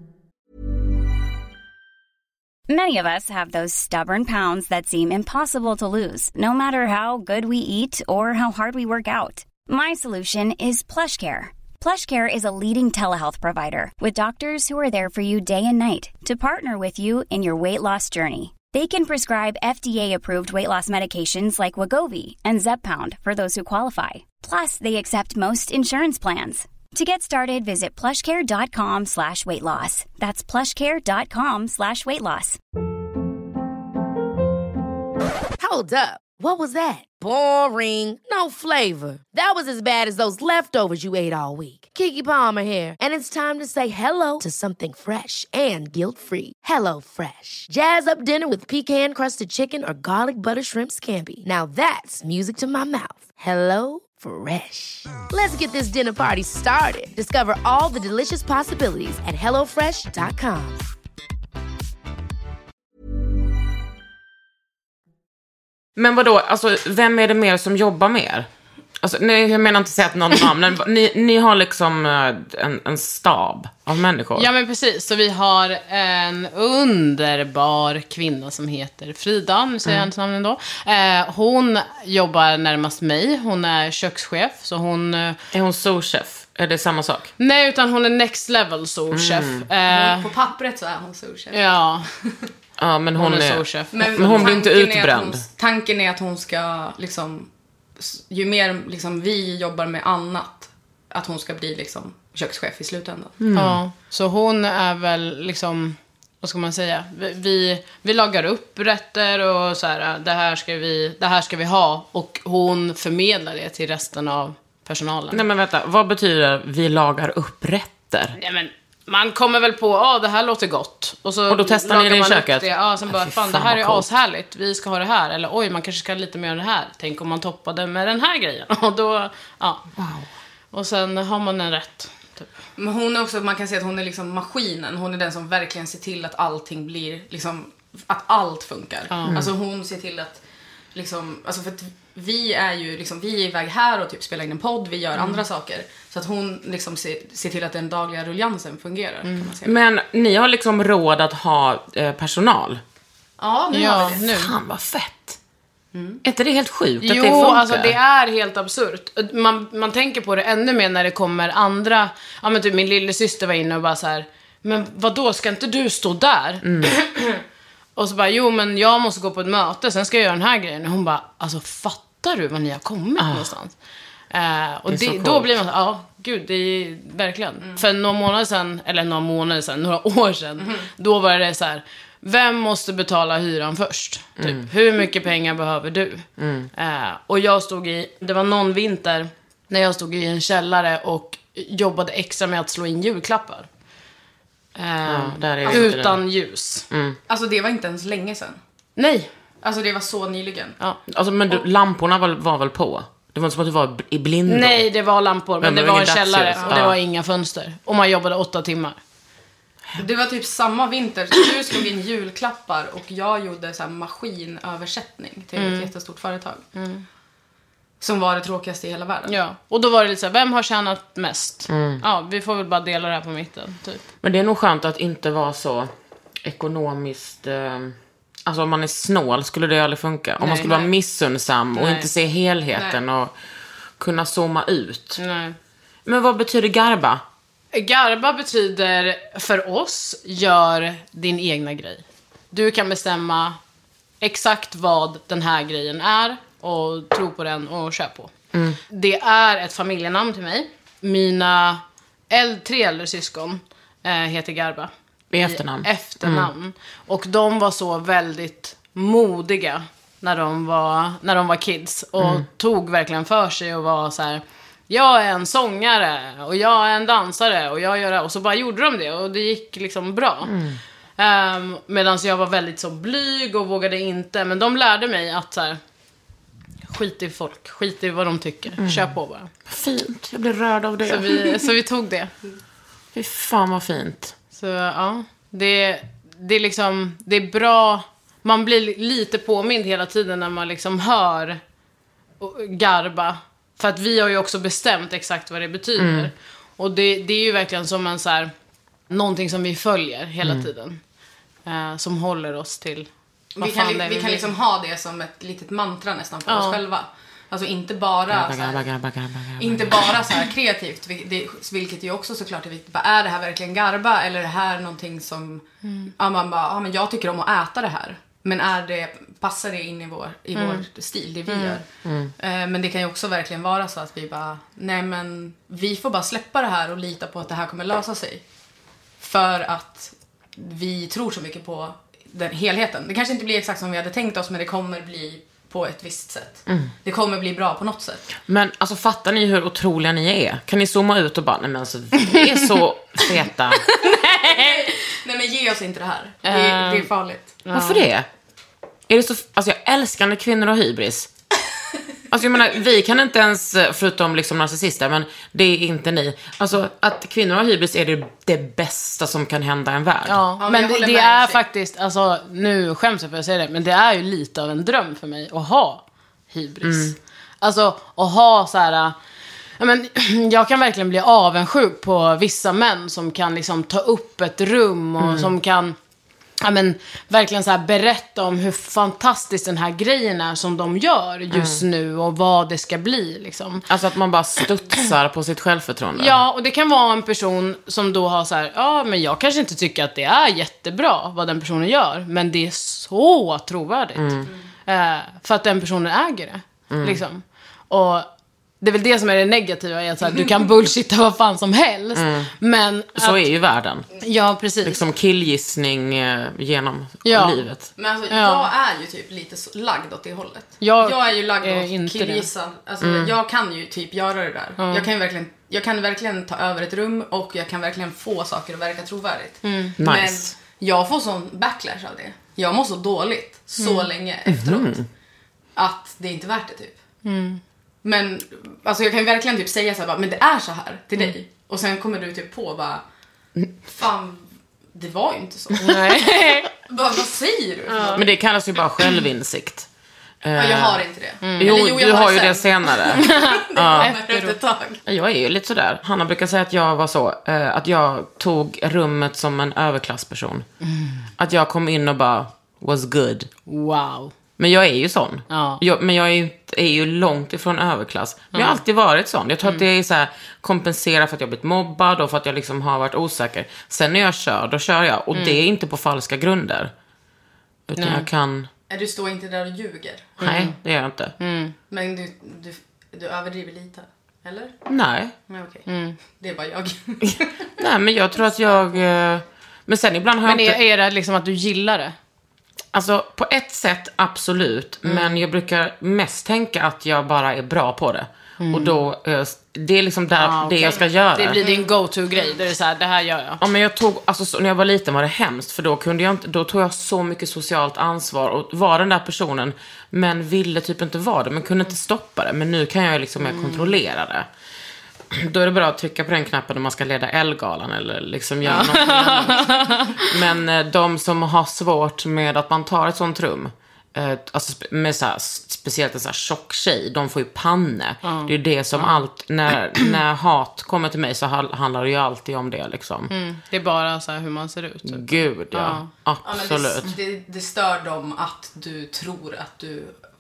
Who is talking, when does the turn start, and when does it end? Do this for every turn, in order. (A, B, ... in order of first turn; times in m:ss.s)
0:02.7-0:32.6 A
0:35.6-1:00.8 B
1:06.0-1:08.5 C
1:09.0-1:14.5 C
1:14.4-1:25.4 D
1:25.5-1:27.3 C
1:27.4-1:30.3 D
1:29.1-1:29.6 C
1:29.8-1:32.4 E
1:31.5-1:32.1 D
1:32.8-1:35.4 C
1:33.2-1:34.5 D
1:33.9-1:43.4 E
1:43.4-1:43.8 C
1:43.5-1:55.4 D
1:55.3-1:58.4 C
1:58.4-2:09.8 D
2:01.5-2:04.1 C
2:10.0-2:10.3 C
2:10.7-2:12.5 D
2:12.8-2:20.4 E
2:19.1-2:19.4 D
2:20.9-2:29.8 E
2:29.6-2:32.8 C
2:33.4-2:34.2 E
2:33.7-2:34.5 D
2:34.2-2:35.4 C
2:35.9-2:36.2 E
2:36.2-2:38.0 C
2:37.0-2:47.4 D
2:46.6-2:46.9 C
2:48.0-2:53.7 D
2:53.2-2:53.5 C
2:54.3-3:13.7 D
2:54.9-2:55.6 C
3:04.4-3:04.7 C
3:06.4-3:06.7 C
3:14.8-3:16.9 D
3:15.0-3:16.2 C
3:16.9-3:17.2 C
3:17.3-3:18.6 E
3:19.0-3:19.3 D
3:19.6-3:20.8 E
3:21.1-3:24.8 C
3:24.5-3:29.0 D
3:25.6-3:27.0 C
3:30.0-3:36.6 E
3:35.6-3:35.9 D
3:36.8-3:37.0 D
3:38.0-3:39.4 E
3:39.3-3:44.0 D
3:41.7-3:42.0 C
3:44.2-3:45.9 C
3:46.4-3:53.3 C
3:50.4-3:50.7 D
3:50.6-3:50.9 E
3:51.8-3:52.1 D
3:52.7-3:53.0 E
3:54.0-3:55.2 C
3:55.2-3:55.6 D
3:56.0-3:57.2 C
3:57.7-4:03.6 D
4:04.2-4:08.3 D
4:08.5-4:08.8 C
4:08.9-4:30.6 D
4:15.3-4:16.5 C
4:22.2-4:22.4 C
4:30.5-4:30.8 C
4:31.2-4:35.8 D
4:36.9-4:39.5 D
4:38.8-4:39.1 C
4:39.7-4:41.6 C
4:41.0-4:42.3 D
4:43.1-4:44.4 C
4:44.6-4:51.6 D
4:52.4-4:58.5 D
4:56.0-4:56.3 C
4:59.1-5:01.0 D
5:01.7-5:04.5 D
5:03.6-5:08.8 E
5:06.5-5:06.8 D
5:08.3-5:10.2 C
5:09.6-5:21.9 E
5:15.8-5:16.1 D
5:20.6-5:20.8 D
5:21.5-5:21.8 D
5:22.0-5:22.3 C
5:22.4-5:28.4 E
5:29.2-5:38.3 E
5:38.4-5:43.8 C
5:43.9-5:44.9 D
5:44.1-5:47.6 E
5:46.4-5:47.1 D
5:47.6-5:48.0 D
5:47.7-5:48.3 C
5:49.1-5:51.3 C
5:52.3-6:00.4 C
6:00.2-6:09.2 D
6:00.6-6:01.6 E
6:06.8-6:07.2 C
6:09.8-6:16.0 D
6:15.2-6:15.5 C
6:16.6-6:23.9 D
6:21.5-6:21.8 C
6:23.9-6:26.4 C
6:26.2-6:38.3 D
6:34.2-6:34.5 C
6:36.9-6:37.2 C
6:38.8-6:43.4 D
6:42.2-6:42.5 C
6:43.2-6:44.1 C
6:44.2-6:45.0 D
6:44.8-6:47.9 C
6:47.2-6:47.6 D
6:48.0-7:05.0 E
6:48.3-6:48.7 D
6:50.8-6:52.5 D
6:53.0-6:53.3 C
6:54.8-6:55.1 D
6:59.6-7:00.0 D
7:00.0-7:00.5 C
7:03.8-7:04.1 D
7:04.5-7:05.1 C
7:05.8-7:07.0 E
7:07.2-7:07.6 D
7:08.0-7:13.0 E
7:13.9-7:18.3 E
7:15.8-7:16.7 D
7:17.9-7:18.2 D
7:18.2-7:19.9 C
7:20.4-7:21.0 C
7:20.6-7:25.0 E
7:21.4-7:21.8 D
7:21.6-7:24.1 C
7:23.2-7:24.6 D
7:25.1-7:30.6 C
7:30.8-7:31.2 D
7:31.4-7:33.5 C
7:33.7-7:34.3 D
7:34.6-7:46.9 C
7:35.5-7:35.8 D
7:38.5-7:38.8 D
7:45.3-7:45.6 D
7:47.9-7:48.7 C
7:48.0-7:48.3 D
7:48.9-7:50.4 E
7:50.4-7:50.8 D
7:50.4-7:51.4 C
7:51.4-7:51.8 D
7:51.9-7:54.8 E
7:54.9-7:55.3 C
7:55.5-7:57.8 E
7:55.9-7:56.2 D
7:57.3-8:00.8 C
8:00.4-8:02.2 D
8:02.9-8:11.6 C
8:05.0-8:05.4 D
8:08.6-8:09.0 D
8:10.4-8:13.6 D
8:11.6-8:11.9 E
8:13.6-8:24.5 C
8:23.4-8:23.9 D
8:25.3-8:43.3 C
8:28.6-8:30.3 D
8:38.2-8:39.2 D
8:43.3-8:46.1 D
8:45.0-8:47.1 C
8:46.4-8:50.2 E